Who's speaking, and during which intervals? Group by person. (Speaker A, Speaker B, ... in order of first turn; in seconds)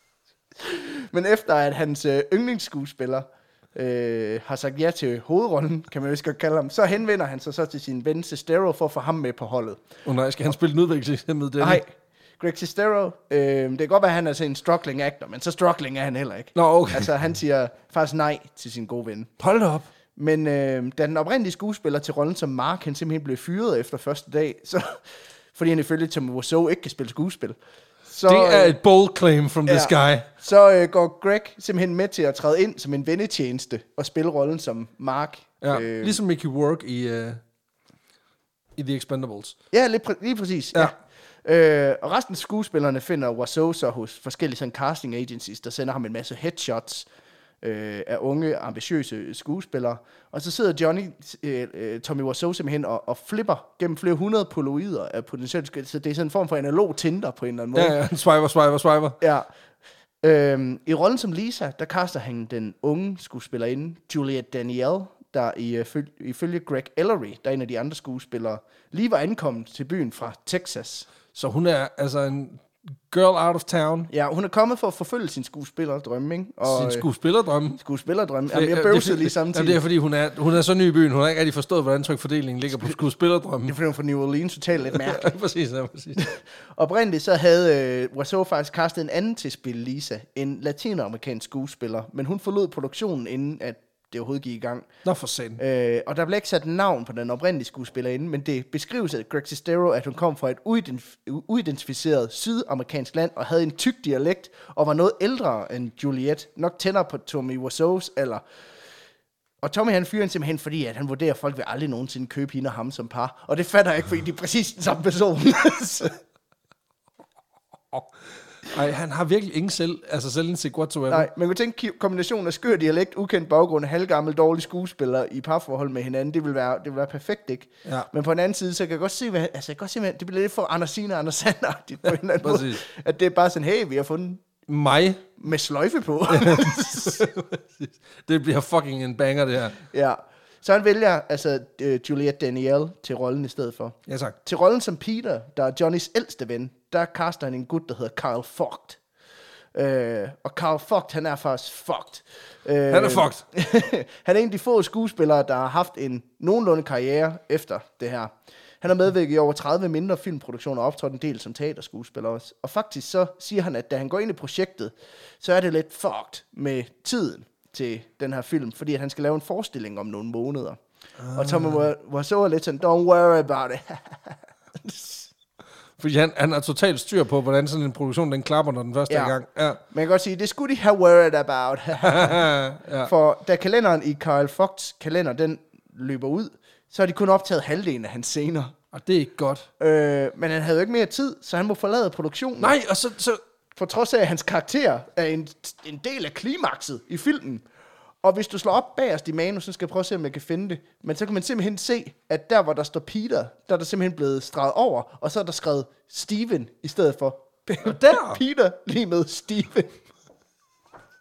Speaker A: 0.6-9.8, 11.6-19.3, 20.1-28.8, 29.7-36.2, 39.7-47.0, 47.6-58.0, 59.2-59.5, 60.2-71.1, 74.1-77.1, 77.8-79.8, 83.7-85.3, 86.2-94.9, 95.6-108.4, 109.6-116.2, 121.1-134.4, 135.4-137.3, 139.9-149.0, 149.7-170.8, 171.3-175.3, 179.1-179.3, 179.9-182.5, 183.0-188.7, 189.8-192.8, 193.8-197.6, 198.2-210.0
Speaker B: 10.0-11.8, 16.5-17.1, 19.4-19.9, 28.3-30.2, 35.6-37.4, 38.8-39.5, 57.7-59.2, 71.3-74.1, 76.6-77.8, 78.5-83.7, 84.8-86.2, 95.0-95.6, 118.7-121.3, 132.4-132.8, 134.7-135.2, 136.3-139.8, 144.1-144.3, 152.9-153.4, 171.2-171.9, 176.0-179.8, 182.0-183.1, 188.9-189.7, 192.6-193.4, 207.8-208.4